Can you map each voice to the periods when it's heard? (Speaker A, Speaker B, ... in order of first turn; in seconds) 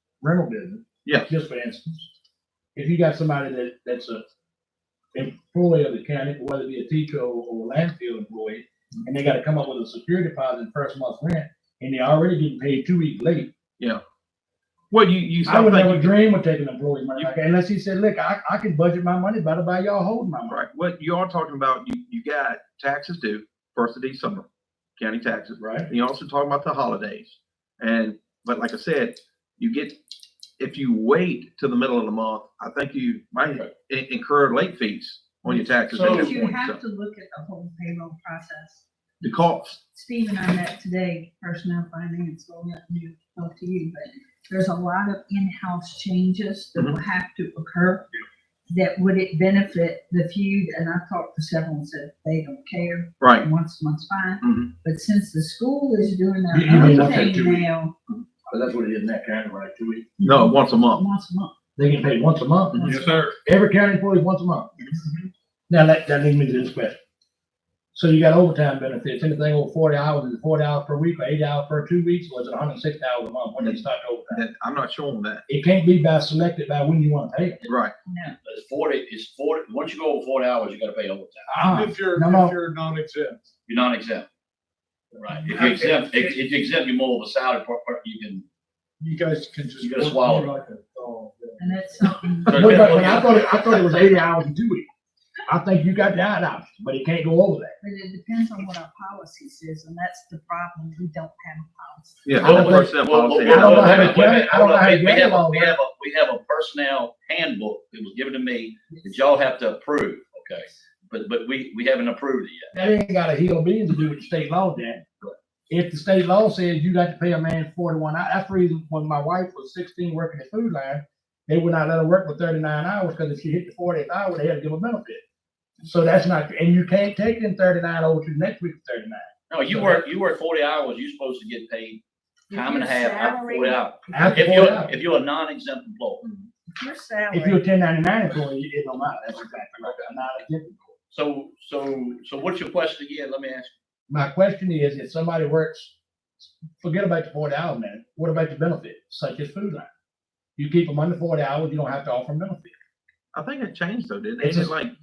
Speaker A: 0.2-2.1, 2.7-4.2, 5.1-13.5, 15.4-20.6, 25.6-25.9, 35.5-36.3, 56.5-57.6, 58.5-60.0, 61.8-64.7, 65.7-67.0, 67.9-74.4, 75.5-77.6, 81.5-82.6, 85.5-86.3, 92.5-94.9, 95.5-97.8, 102.4-105.8, 112.7-115.0, 115.7-125.2, 125.8-130.1, 134.1-134.9, 137.3-140.9, 144.1-149.9, 150.6-152.7, 154.4-154.8
Speaker B: 1.0-1.3, 14.9-16.1, 20.5-24.4, 25.0-30.0, 30.6-36.8, 39.2-39.8, 53.2-53.5, 54.4-54.7, 56.8-57.2, 60.2-61.0, 62.7-63.0, 73.6-75.4, 77.7-77.9, 92.5-93.0, 102.2-104.3, 153.3-154.9
Speaker C: 35.9-36.3, 78.4-81.5, 83.7-84.3, 85.2-88.4, 89.8-90.5, 92.5-93.6, 102.4-112.7, 129.5-132.0, 132.5-136.2, 141.1-143.7
Speaker D: 36.0-38.8, 39.9-48.1, 48.7-57.9, 60.2-61.5, 78.0-78.3, 91.6-92.7, 97.8-102.3, 132.5-134.6, 136.7-137.6
Speaker E: 62.8-63.3, 81.5-83.4, 89.0-91.8